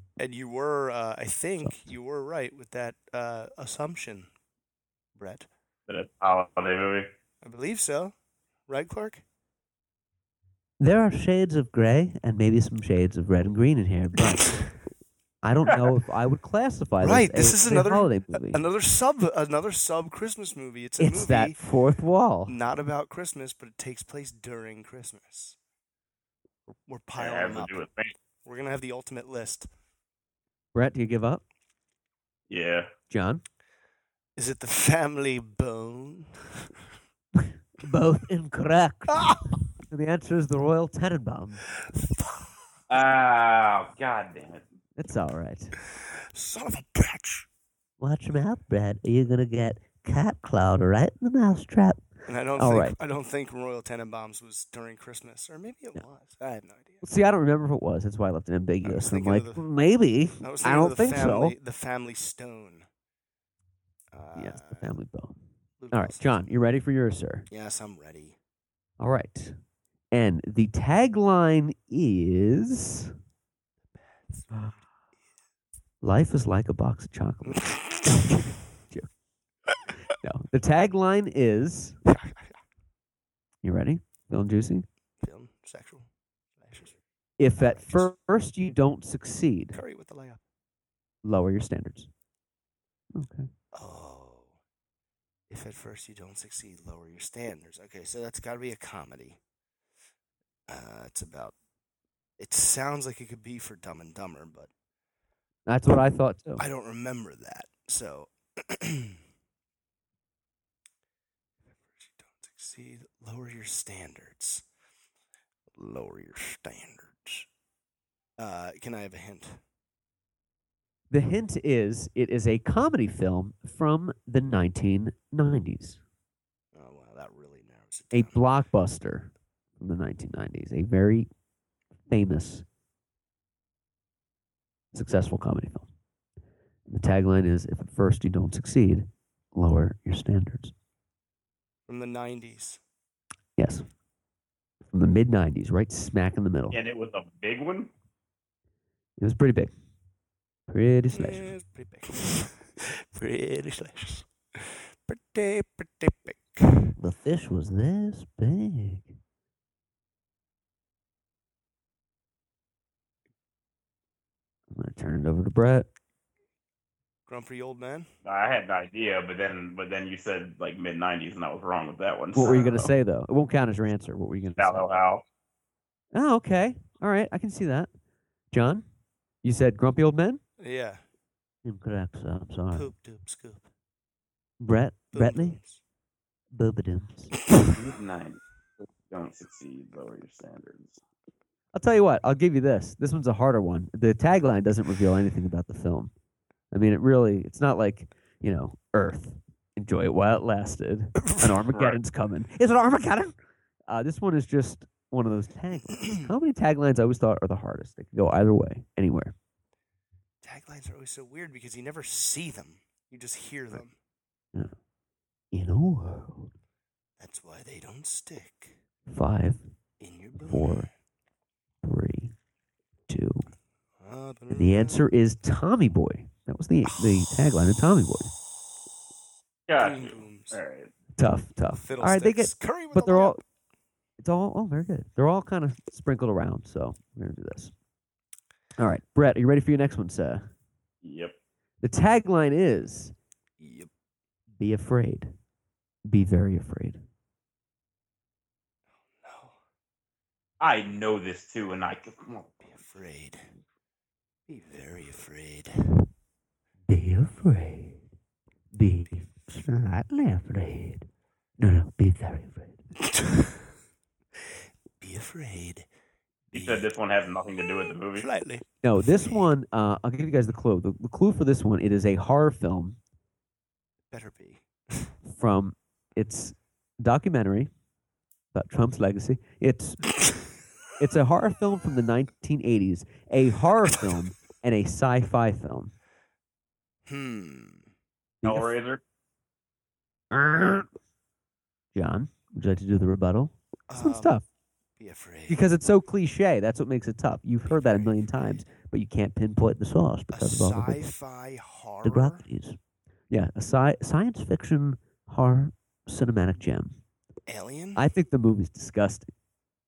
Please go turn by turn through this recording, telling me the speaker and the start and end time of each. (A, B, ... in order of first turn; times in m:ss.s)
0:00.2-0:04.3 A
0:01.6-0:01.9 B
0:05.2-0:05.5 A
0:05.9-0:07.1 C
0:07.4-0:08.1 A
0:08.7-0:09.2 A
0:10.8-0:14.6 B
0:15.4-0:18.6 B
0:15.7-0:15.9 C
0:17.0-0:21.6 A
0:21.0-0:22.5 B
0:22.5-0:25.6 A
0:26.8-0:27.8 A
0:27.2-0:28.1 C
0:28.4-0:29.7 A
0:30.7-0:31.4 B
0:32.5-0:32.9 C
0:33.1-0:33.4 B
0:34.4-0:36.7 A
0:37.3-0:41.6 B
0:39.1-0:39.6 A
0:41.8-0:42.5 A
0:42.9-0:44.6 C
0:45.0-0:45.7 B
0:45.9-0:47.5 A
0:48.0-0:52.9 B
0:52.3-0:57.0 A
0:57.0-1:01.6 B
0:58.8-0:59.6 A
1:00.4-1:02.8 A
1:04.1-1:04.9 A
1:04.3-1:05.4 B
1:05.8-1:06.4 A
1:05.9-1:07.5 B
1:07.5-1:08.4 A
1:09.0-1:09.6 B
1:10.1-1:13.1 B
1:13.9-1:14.5 A
1:16.0-1:19.1 B
1:17.4-1:18.3 A
1:20.2-1:22.0 B
1:22.0-1:22.5 A
1:23.6-1:24.8 B
1:25.2-1:27.0 A
1:27.4-1:29.8 B
1:27.6-1:28.1 A
1:29.7-1:30.4 A
1:31.2-1:32.1 B
1:33.1-1:33.5 B
1:33.7-1:34.5 A
1:35.5-1:39.4 A
1:40.7-1:41.5 A
1:42.4-1:44.7 A
1:45.7-1:46.6 B
1:46.6-1:49.2 A
1:51.8-1:54.6 A
1:55.8-1:57.5 A
1:58.4-1:59.6 A
2:01.1-2:06.0 B
2:06.7-2:08.4 A
2:08.1-2:11.3 B
2:12.1-2:12.6 B
2:14.9-2:15.9 B
2:16.9-2:20.7 B
2:21.9-2:22.8 A
2:23.6-2:23.8 B
2:24.9-2:26.8 B
2:26.7-2:27.9 C
2:29.2-2:29.7 B
2:30.7-2:31.5 B
2:31.1-2:36.9 A
2:37.0-2:39.1 B
2:44.7-2:45.9 B
2:47.3-2:48.1 A
2:48.2-2:52.9 C
2:52.3-2:54.9 B
2:54.6-2:55.2 C
2:56.1-2:57.9 B
2:58.5-2:58.8 B
2:59.4-3:00.4 B
3:00.6-3:01.0 A
3:01.6-3:02.9 B
3:02.7-3:03.7 A
3:04.6-3:05.6 B
3:05.1-3:05.8 A
3:06.5-3:07.3 B
3:07.7-3:11.0 C
3:11.7-3:16.1 B
3:16.7-3:23.3 B
3:21.2-3:21.5 A
3:21.7-3:22.0 C
3:23.9-3:29.3 B
3:26.0-3:26.3 A
3:30.4-3:34.0 A
3:35.5-3:36.5 B
3:37.2-3:38.8 A
3:39.1-3:39.6 B
3:40.0-3:40.9 A
3:40.4-3:40.9 B
3:41.8-3:42.3 B
3:43.1-3:43.5 B
3:44.0-3:45.0 A
3:44.5-3:48.3 B
3:49.7-3:50.9 C
3:49.8-3:50.6 A
3:51.2-3:53.4 B
3:51.8-3:53.4 A
3:54.2-3:57.7 B
3:58.8-4:00.5 B
4:01.0-4:01.3 C
4:01.8-4:03.1 B
4:03.6-4:03.9 A
4:04.6-4:05.3 B
4:06.0-4:07.0 B
4:09.1-4:09.5 A
4:10.6-4:12.5 C
4:12.6-4:13.5 A
4:14.5-4:15.8 A
4:16.9-4:18.0 B
4:18.7-4:21.0 B
4:21.6-4:22.8 B
4:23.0-4:23.7 A
4:25.0-4:25.9 A
4:26.5-4:26.8 A
4:26.5-4:28.3 C
4:28.2-4:29.5 A
4:28.8-4:33.0 B
4:34.1-4:35.1 A
4:35.2-4:37.7 B
4:38.5-4:40.0 B
4:41.0-4:45.9 B
4:47.0-4:47.9 A
4:48.4-4:48.7 B
4:48.4-4:49.0 C
4:50.3-4:50.9 B
4:51.9-4:54.4 B
4:53.9-4:54.4 A
4:55.0-4:55.6 A
4:55.5-5:01.1 B
4:57.7-4:58.6 A
5:00.3-5:02.4 A
5:02.0-5:02.8 B
5:03.3-5:07.0 B
5:07.5-5:08.0 A
5:08.0-5:09.3 B